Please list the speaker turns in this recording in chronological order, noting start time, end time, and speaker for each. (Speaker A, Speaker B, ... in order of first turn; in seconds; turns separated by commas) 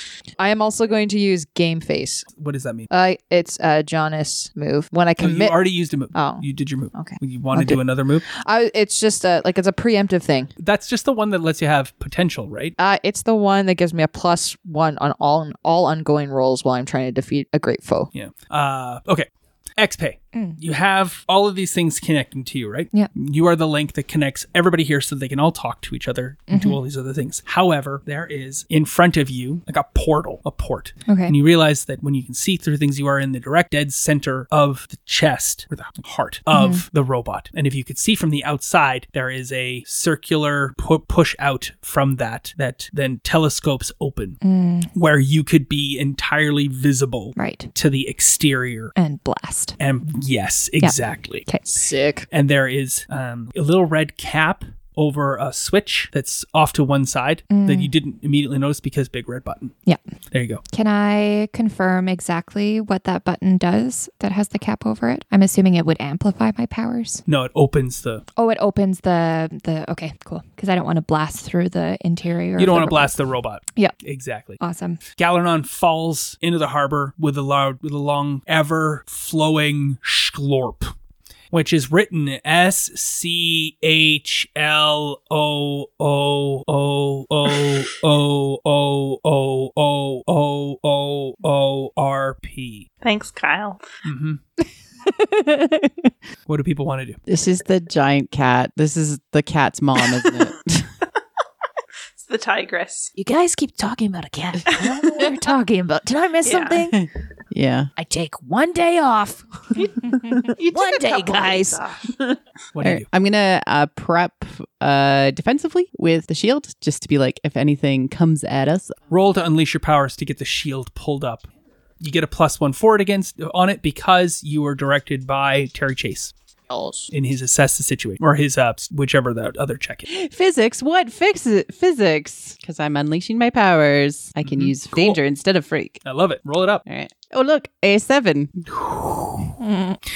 Speaker A: 0.4-2.3, Speaker B: 2.4-2.9, Speaker A: 2.9-5.5, Speaker B: 5.2-8.3, Speaker A: 6.1-7.8, Speaker A: 8.3-10.5, Speaker B: 10.6-12.7, Speaker A: 12.8-18.1, Speaker B: 18.1-44.4, Speaker C: 26.5-26.8, Speaker C: 31.1-31.3, Speaker C: 36.5-36.8, Speaker C: 44.4-44.9, Speaker B: 44.9-48.9, Speaker C: 47.4-47.7, Speaker C: 49.0-49.8, Speaker B: 49.8-51.4, Speaker C: 50.8-51.7, Speaker A: 51.6-52.3, Speaker B: 52.3-59.7, Speaker C: 57.5-57.9, Speaker B: 60.3-60.6, Speaker C: 60.7-67.2, Speaker B: 67.2-68.2, Speaker C: 68.3-73.2, Speaker B: 72.6-74.6, Speaker C: 74.6-75.0, Speaker B: 75.2-80.9, Speaker B: 81.5-92.9, Speaker D: 93.0-93.8, Speaker B: 94.0-94.4, Speaker B: 96.5-97.2, Speaker E: 97.3-100.9, Speaker D: 102.2-103.1, Speaker A: 103.2-104.6, Speaker F: 103.2-106.9, Speaker D: 104.7-105.3, Speaker A: 105.2-106.9, Speaker D: 106.4-106.9, Speaker E: 106.9-107.9, Speaker F: 108.0-109.4, Speaker A: 108.0-109.4, Speaker A: 110.1-111.7, Speaker D: 110.6-112.1, Speaker F: 110.7-111.8, Speaker B: 112.7-113.0, Speaker E: 112.8-119.0, Speaker B: 119.1-121.5, Speaker B: 122.0-126.3, Speaker A: 126.7-127.1, Speaker B: 127.1-130.1, Speaker E: 130.1-136.0, Speaker B: 134.4-135.2, Speaker B: 136.0-136.8, Speaker E: 136.8-138.7, Speaker B: 138.7-139.5, Speaker C: 139.6-140.0